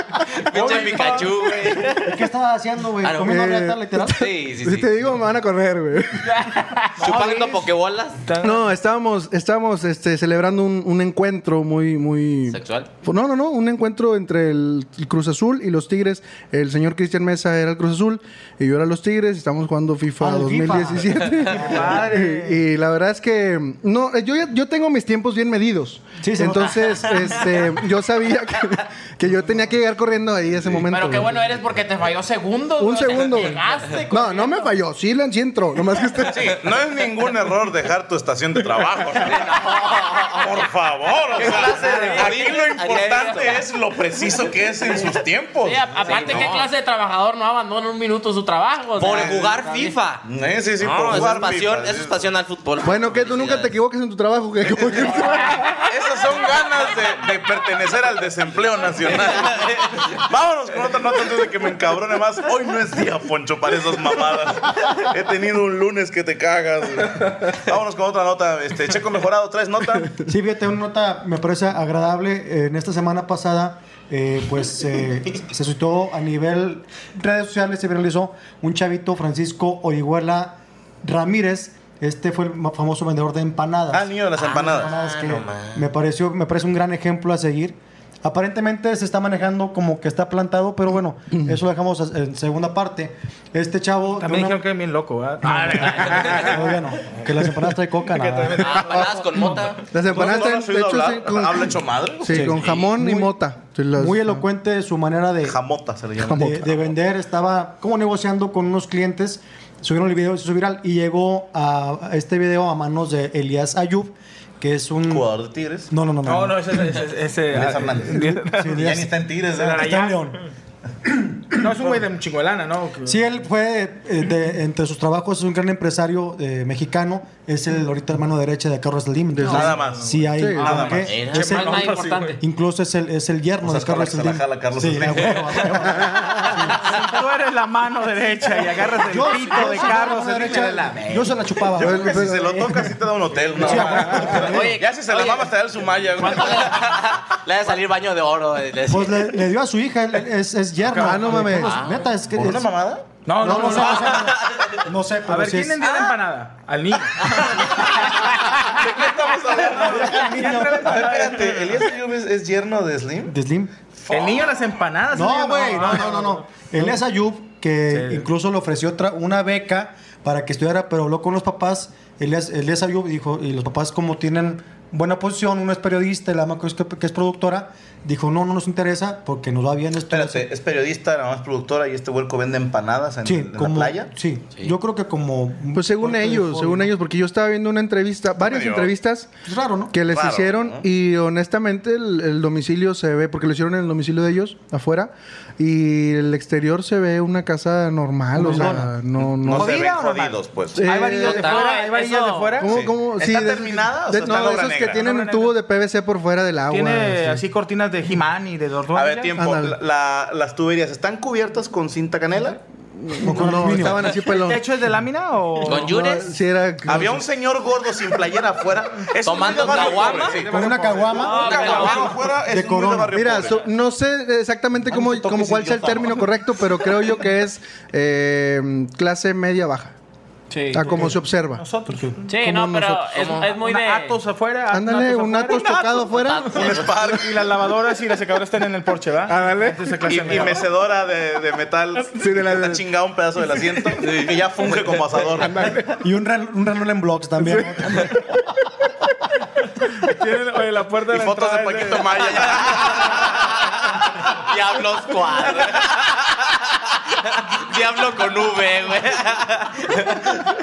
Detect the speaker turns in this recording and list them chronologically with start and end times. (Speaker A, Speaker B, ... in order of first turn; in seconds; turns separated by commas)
Speaker A: 0.4-2.1, Speaker B: 0.6-1.3, Speaker C: 0.6-1.3, Speaker D: 1.9-4.3, Speaker A: 3.0-3.4, Speaker E: 3.1-6.4, Speaker A: 4.0-4.9, Speaker F: 6.2-7.5, Speaker C: 7.0-7.6, Speaker A: 7.0-8.2, Speaker C: 8.2-8.6, Speaker E: 8.4-31.4, Speaker A: 12.5-12.9, Speaker D: 20.2-22.1, Speaker C: 21.5-22.6, Speaker D: 26.2-27.5, Speaker F: 30.9-34.7, Speaker E: 32.8-36.6, Speaker B: 36.2-39.6, Speaker A: 39.2-40.7, Speaker B: 40.3-46.5, Speaker A: 41.3-43.6, Speaker F: 45.6-49.9, Speaker A: 46.0-46.7, Speaker A: 49.0-50.2, Speaker B: 49.0-49.6, Speaker B: 50.2-52.2, Speaker A: 50.8-53.7, Speaker E: 52.8-55.6, Speaker B: 54.7-70.2, Speaker A: 59.0-59.8, Speaker D: 70.2-94.7, Speaker B: 83.9-85.0, Speaker A: 84.3-85.8, Speaker C: 94.2-97.2, Speaker D: 95.4-98.8, Speaker A: 96.0-96.5, Speaker C: 98.1-99.1, Speaker A: 98.6-99.8, Speaker E: 99.8-104.5, Speaker B: 100.0-102.8, Speaker D: 102.3-103.3, Speaker A: 102.5-102.9, Speaker D: 103.9-105.6, Speaker B: 105.4-107.0, Speaker E: 106.2-106.6, Speaker D: 106.3-115.3, Speaker B: 115.0-115.9, Speaker D: 115.9-117.0, Speaker C: 116.2-118.8, Speaker B: 117.5-120.0, Speaker D: 118.2-120.4, Speaker C: 119.5-120.3, Speaker D: 121.1-122.0, Speaker C: 121.5-123.2, Speaker D: 123.0-137.0, Speaker E: 129.4-129.8, Speaker B: 129.4-132.2, Speaker E: 130.3-130.9, Speaker A: 131.1-131.5, Speaker F: 131.3-132.4, Speaker C: 131.7-132.2, Speaker B: 133.6-136.0, Speaker C: 136.8-141.4, Speaker D: 139.0-142.9, Speaker B: 141.7-147.0, Speaker E: 141.8-142.7, Speaker D: 143.5-144.8, Speaker F: 144.5-145.5, Speaker F: 146.2-146.9, Speaker A: 146.4-149.4, Speaker D: 148.9-152.7, Speaker C: 150.8-151.3, Speaker E: 151.0-151.8, Speaker A: 151.5-152.0, Speaker B: 152.3-153.2, Speaker C: 153.2-154.2, Speaker D: 153.4-155.9, Speaker A: 154.1-154.8, Speaker C: 155.2-157.6, Speaker A: 155.8-156.2, Speaker A: 157.2-157.5, Speaker B: 157.4-163.3, Speaker C: 159.6-161.8, Speaker D: 160.0-161.1, Speaker D: 163.3-163.7, Speaker B: 163.9-164.6, Speaker C: 164.1-166.4, Speaker D: 165.1-180.5, Speaker C: 167.9-168.3, Speaker B: 180.0-184.1, Speaker D: 183.2-186.9, Speaker E: 185.7-189.3, Speaker B: 188.4-188.9, Speaker D: 189.4-189.9, Speaker E: 189.9-199.8, Speaker B: 190.0-190.8, Speaker D: 198.3-199.0, Speaker B: 199.2-201.1, Speaker C: 199.5-202.8, Speaker E: 200.7-201.5, Speaker A: 201.2-201.8, Speaker F: 201.2-202.6, Speaker E: 202.6-207.4, Speaker B: 202.6-205.0, Speaker C: 204.9-205.5, Speaker C: 206.7-209.3, Speaker B: 208.9-212.6, Speaker E: 209.3-209.8, Speaker E: 213.1-214.6, Speaker D: 213.2-214.1, Speaker C: 214.3-215.9, Speaker A: 215.6-216.3, Speaker E: 215.6-217.2, Speaker B: 216.8-223.7, Speaker A: 219.2-220.4, Speaker C: 220.3-221.2, Speaker D: 220.3-221.8, Speaker F: 221.1-222.2, Speaker A: 221.4-222.1, Speaker D: 222.4-223.3, Speaker E: 223.1-229.9, Speaker B: 224.9-226.3, Speaker F: 230.5-231.1, Speaker E: 230.7-231.7, Speaker C: 230.8-232.3, Speaker F: 232.3-234.2, Speaker E: 232.3-233.2, Speaker A: 233.1-233.5, Speaker C: 233.4-236.2, Speaker E: 234.7-236.6, Speaker A: 236.2-237.1, Speaker B: 236.3-237.5, Speaker C: 237.1-240.7, Speaker E: 239.3-240.3, Speaker B: 240.0-245.7, Speaker E: 242.1-242.8, Speaker A: 244.0-244.4, Speaker E: 245.3-246.0, Speaker D: 246.0-248.2, Speaker E: 247.5-248.3, Speaker C: 250.0-252.2, Speaker B: 251.1-253.3, Speaker A: 252.5-253.3, Speaker A: 254.5-256.6, Speaker A: 257.2-260.4